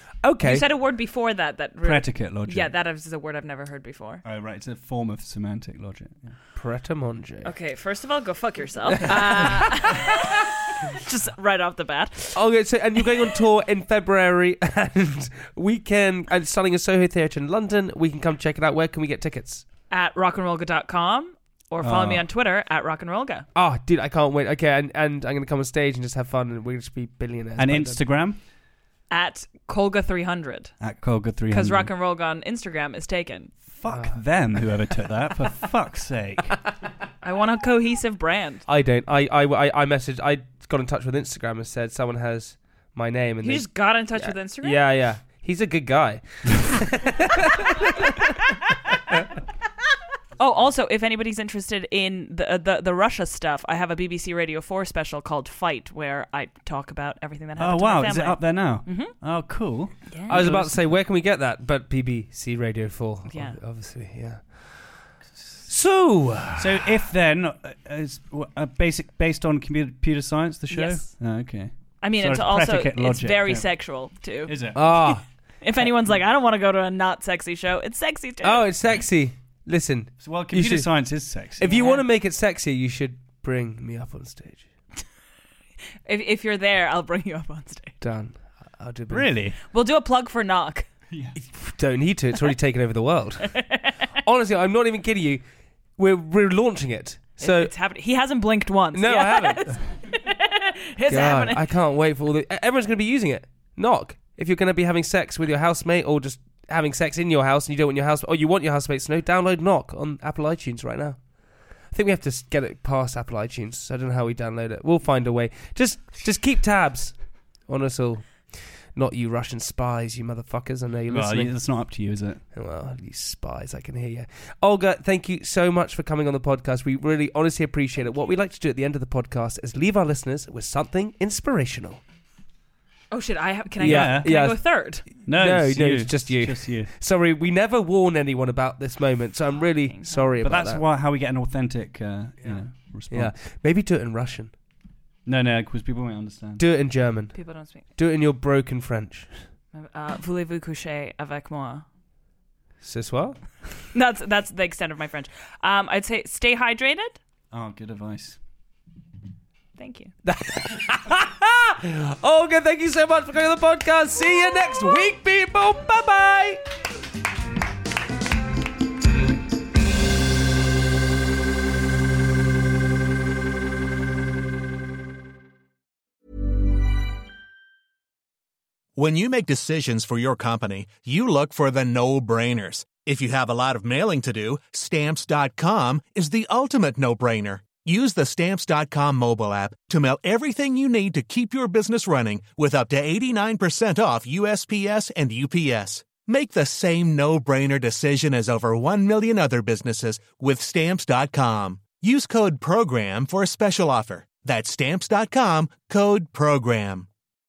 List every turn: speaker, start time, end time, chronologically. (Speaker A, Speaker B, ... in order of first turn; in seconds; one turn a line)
Speaker A: 0.2-0.7
Speaker B: 0.4-4.2
Speaker C: 1.8-2.7
Speaker C: 4.2-6.3
Speaker A: 6.5-7.5
Speaker B: 7.4-12.4
Speaker A: 9.0-9.6
Speaker A: 12.3-19.6
Speaker B: 19.9-23.4
Speaker C: 21.8-22.2
Speaker A: 23.5-28.0
Speaker C: 27.6-28.4
Speaker B: 29.1-30.7
Speaker C: 30.8-31.9
Speaker B: 31.5-33.5
Speaker C: 33.7-36.6
Speaker A: 33.9-34.2
Speaker B: 37.2-38.6
Speaker A: 38.7-48.1
Speaker B: 43.4-44.8
Speaker B: 50.4-59.1
Speaker C: 57.6-60.8
Speaker B: 60.1-60.5
Speaker A: 60.3-65.1
Speaker B: 63.3-63.6
Speaker A: 65.7-66.9
Speaker C: 66.6-73.7
Speaker B: 70.7-71.1
Speaker B: 72.0-75.1
Speaker C: 74.5-74.9
Speaker A: 74.7-75.2
Speaker B: 75.6-78.7
Speaker A: 78.4-84.7
Speaker C: 80.2-81.8
Speaker B: 81.7-82.0
Speaker B: 86.0-88.0
Speaker A: 88.0-89.3
Speaker C: 89.1-89.5
Speaker B: 89.7-90.9
Speaker C: 91.1-91.3
Speaker A: 91.4-93.6
Speaker B: 93.6-94.0
Speaker A: 94.2-95.4
Speaker A: 96.0-97.7
Speaker B: 97.4-101.6
Speaker A: 98.9-99.8
Speaker A: 101.1-121.7
Speaker C: 121.1-122.4
Speaker A: 122.5-132.0
Speaker B: 133.1-135.0
Speaker C: 133.8-134.3
Speaker A: 133.8-140.8
Speaker C: 135.2-136.9
Speaker B: 139.9-140.3
Speaker C: 140.4-143.3
Speaker A: 143.1-144.5
Speaker C: 145.2-146.6
Speaker A: 146.6-149.4
Speaker B: 147.3-147.9
Speaker B: 149.7-151.8
Speaker A: 152.8-153.4
Speaker B: 153.9-157.2
Speaker C: 157.5-158.4
Speaker B: 159.8-160.1
Speaker A: 160.2-166.6
Speaker D: 178.9-207.1